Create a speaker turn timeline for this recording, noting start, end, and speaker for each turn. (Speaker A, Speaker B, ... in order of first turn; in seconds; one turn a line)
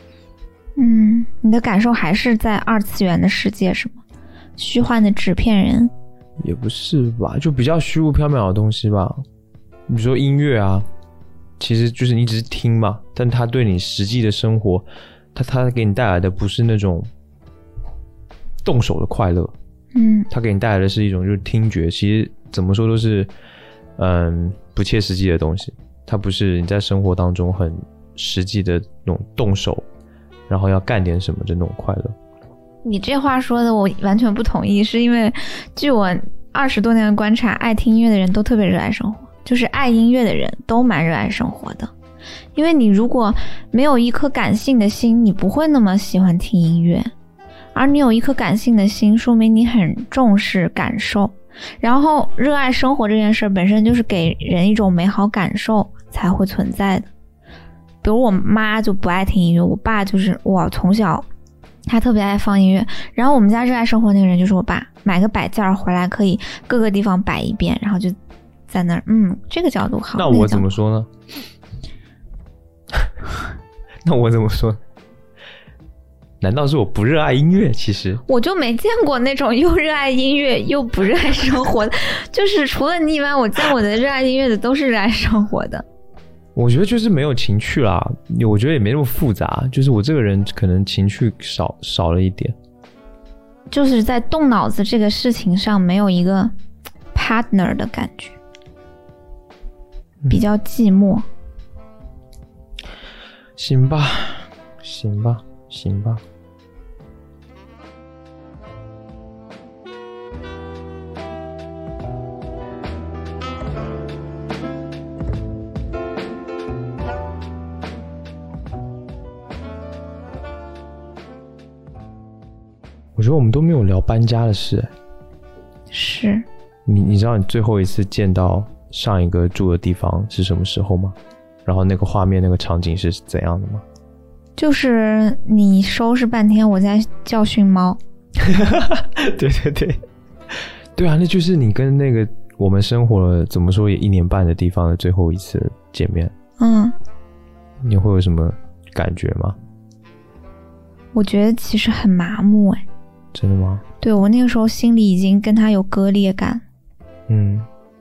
Speaker A: 0.8-4.0
Speaker A: 4.6-5.9
Speaker B: 6.4-9.2
Speaker B: 9.9-10.9
Speaker B: 11.6-17.1
Speaker B: 18.6-19.5
Speaker A: 19.9-20.3
Speaker B: 20.3-23.3
Speaker B: 24.0-29.9
Speaker B: 30.5-32.1
Speaker A: 32.8-41.9
Speaker A: 42.5-47.1
Speaker A: 47.7-57.1
Speaker A: 58.0-61.3
Speaker A: 61.9-68.2
Speaker A: 68.7-70.7
Speaker B: 70.2-71.1
Speaker B: 74.0-74.8
Speaker B: 76.4-78.2
Speaker A: 78.3-85.8
Speaker B: 86.6-92.5
Speaker A: 93.7-96.5
Speaker A: 97.1-98.4
Speaker A: 100.3-101.3
Speaker B: 103.6-106.2
Speaker B: 123.2-124.9
Speaker A: 125.9-126.5
Speaker B: 126.9-133.8
Speaker A: 134.6-138.0
Speaker B: 138.4-140.0
Speaker B: 140.9-146.3
Speaker A: 146.6-146.9
Speaker B: 147.8-149.6
Speaker A: 151.1-152.8
Speaker B: 153.3-153.8
Speaker A: 154.0-156.6
Speaker B: 157.3-157.7